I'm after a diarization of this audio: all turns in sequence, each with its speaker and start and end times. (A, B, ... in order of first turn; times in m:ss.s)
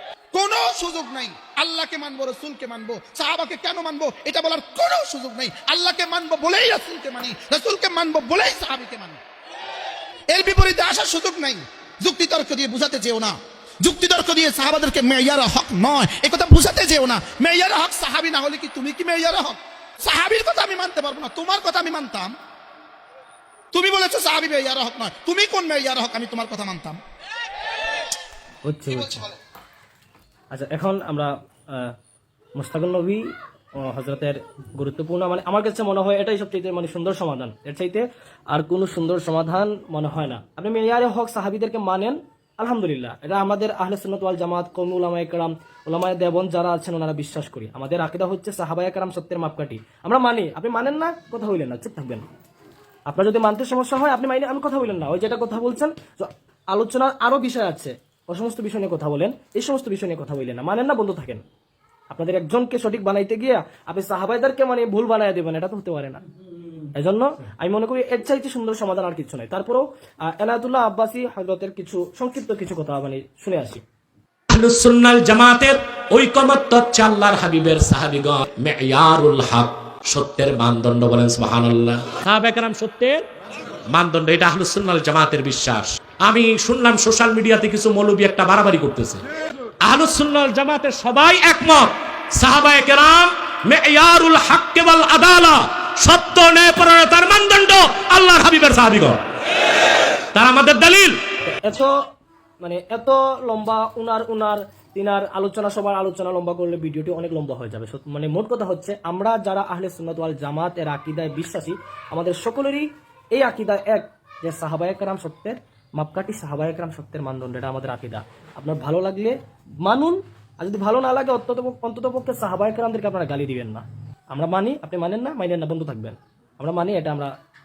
0:00.3-0:09.2 A
0:10.3-0:22.3 A
0:23.7-0:27.0 A
0:28.6-0:29.2 B
0:28.9-0:29.3 A
0:30.5-0:31.9 B
0:32.6-0:33.2 B
0:33.8-0:52.2 B
0:53.1-1:01.4 B
1:02.1-1:06.2 B
1:07.0-1:13.8 B
1:14.5-1:23.2 C
1:23.9-1:29.2 C
1:29.8-1:39.2 C
1:40.3-1:41.2 C
1:41.5-1:41.9 B
1:42.6-2:07.3 B